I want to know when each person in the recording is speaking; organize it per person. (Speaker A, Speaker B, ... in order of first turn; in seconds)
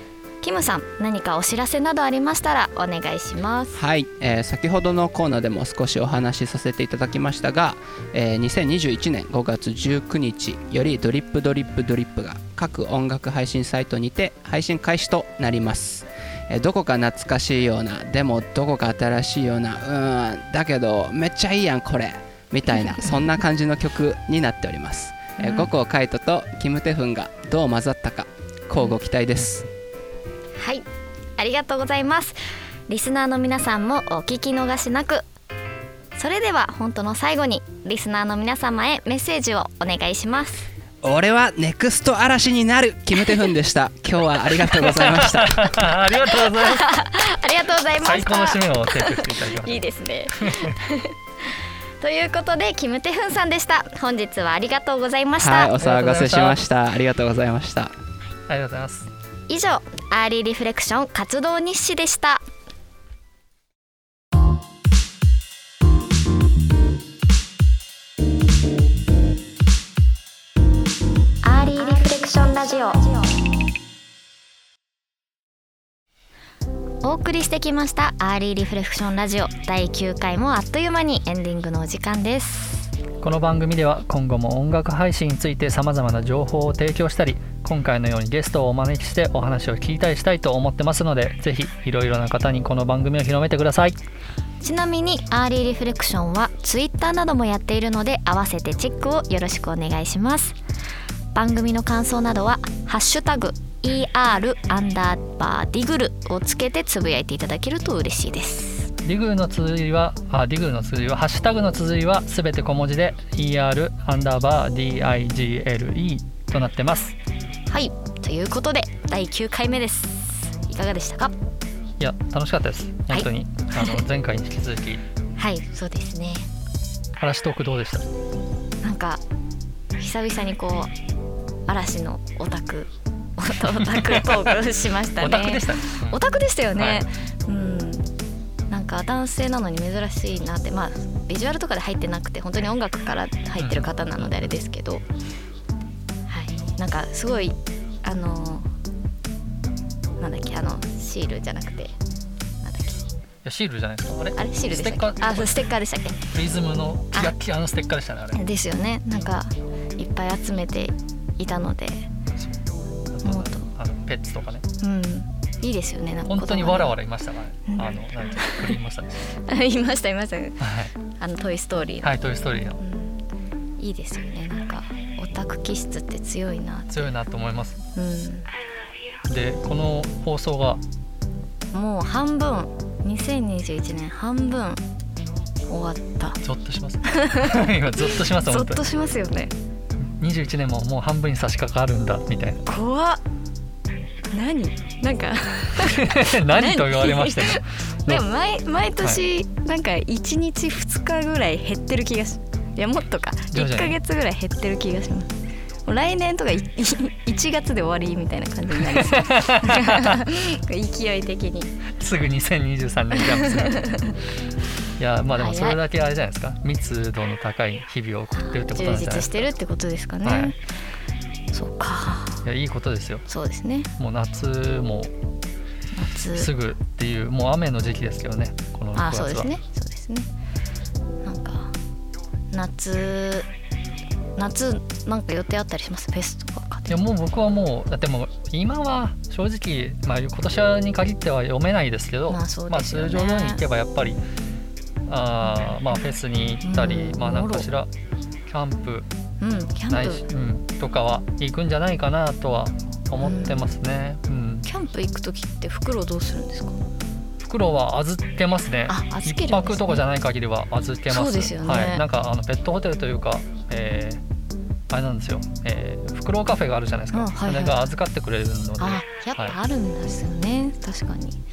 Speaker A: 0.4-3.8, 25.4-25.7, 30.6-30.8, 31.4-32.4, 32.9-35.2, 36.1-40.6, 46.2-55.7, 59.5-62.4, 71.4-73.3, 77.0-82.9, 94.6-100.6, 101.3-108.9, 117.7-121.3, 123.1-124.0, 125.4-126.5, 128.8-129.2, 130.0-130.9, 131.7-138.1, 138.7-145.0, 146.3-148.7, 150.2-151.9, 152.6-153.1, 154.3-156.2, 158.3-162.1, 163.2-163.7, 164.8-166.9, 167.7-168.7, 169.3-172.1, 172.8-173.2, 173.8-177.1, 177.9-178.5, 181.7-184.8, 185.7-186.4, 187.1-189.5, 192.7-193.2, 194.3-205.3, 205.8-211.7, 213.1-214.1, 215.3-215.8, 218.5-220.6, 221.5-222.4, 223.3-223.9, 225.9-226.5, 228.9-230.3, 231.2-231.7, 232.5-233.5, 234.3-237.0, 242.3-243.6, 246.6-247.7, 249.4-250.2, 253.2-253.6, 254.6-256.8, 258.9-260.0, 261.1-262.0, 267.1-267.9, 268.8-271.4
Speaker B: 3.7-29.7, 41.0-45.8, 55.4-57.9
Speaker C: 44.6-47.0, 48.0-50.8, 55.7-56.6, 58.5-59.1, 83.2-94.0, 109.0-117.2, 122.0-125.0, 127.2-128.0, 133.8-134.6, 135.2-136.2, 136.7-137.0, 143.6-144.6, 153.4-155.7, 156.3-158.4, 163.1-164.6, 166.2-169.2, 170.6-170.9, 172.0-172.8, 176.9-177.8, 179.3-180.8, 186.4-188.8, 190.0-192.6, 195.8-198.2, 203.5-204.0, 208.8-210.2, 212.0-214.1, 215.0-219.5, 220.2-220.5, 222.4-223.2, 224.0-225.1, 226.3-229.5, 236.9-244.2, 245.1-247.9, 248.5-249.1, 249.9-254.7, 257.4-264.2, 264.9-269.6